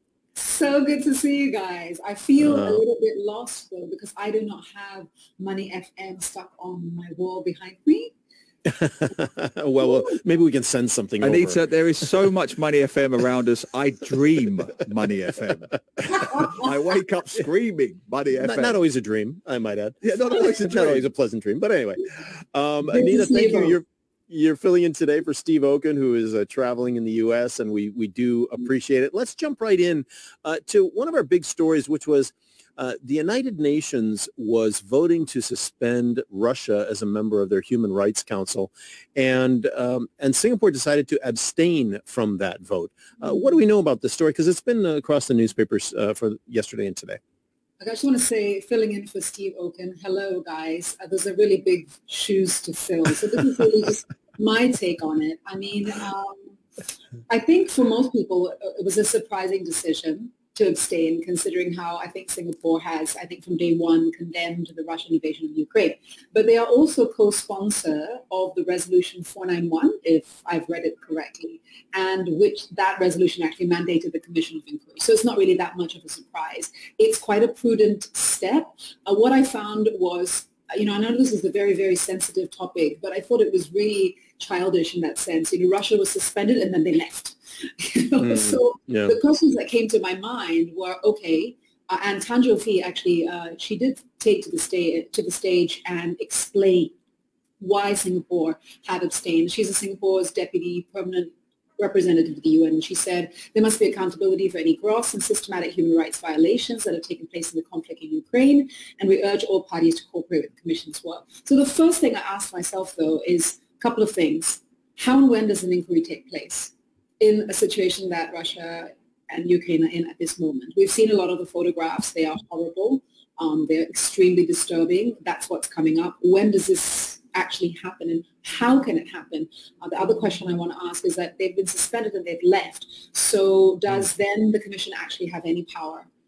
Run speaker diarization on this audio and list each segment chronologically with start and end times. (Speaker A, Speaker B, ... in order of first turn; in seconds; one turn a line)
Speaker A: 0.3-8.1
Speaker B: 2.4-2.8
Speaker B: 8.7-12.0
Speaker C: 11.2-18.8
Speaker A: 16.1-16.6
Speaker B: 18.4-47.2
Speaker C: 20.0-21.0
Speaker A: 22.9-23.8
Speaker A: 47.8-56.4
Speaker A: 57.3-96.9
Speaker B: 88.2-89.1
Speaker A: 97.6-136.1